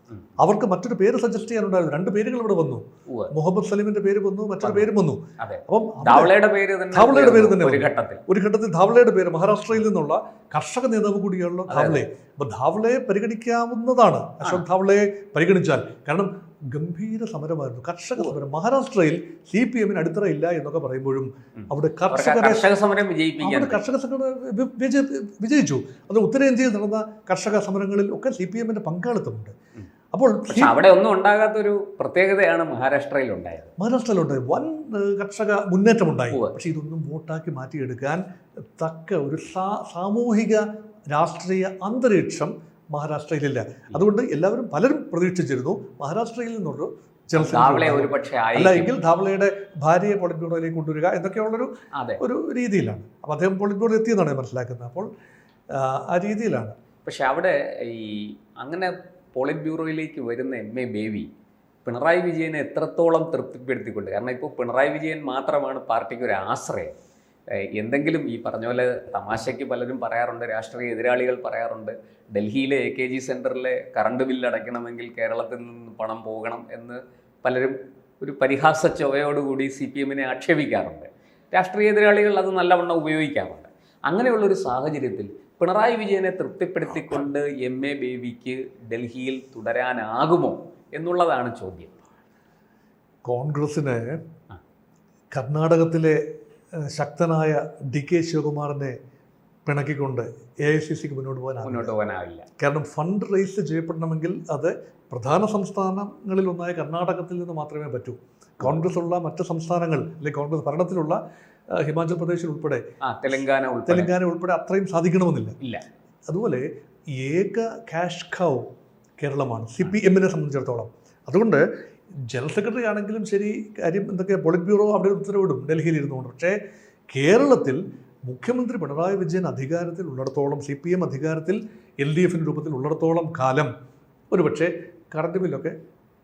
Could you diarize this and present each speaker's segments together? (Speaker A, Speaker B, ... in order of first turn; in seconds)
Speaker A: 0.4-6.3, 6.9-22.7, 23.4-29.5, 30.1-30.8, 33.8-38.2, 38.8-51.7, 52.2-55.1, 55.7-56.8, 93.2-94.2, 95.3-96.2, 96.9-99.0, 99.7-101.9, 102.6-111.2, 111.7-112.8, 113.9-115.6, 116.3-121.6, 122.3-126.6, 127.1-133.7, 134.3-135.8
Speaker B: 3.1-3.3, 4.6-8.2, 11.7-12.0, 21.6-23.8, 30.5-33.7, 36.3-36.6, 47.4-48.9, 52.0-52.2, 57.0-61.3, 61.9-66.9, 67.6-92.0, 101.6-102.5, 113.0-114.1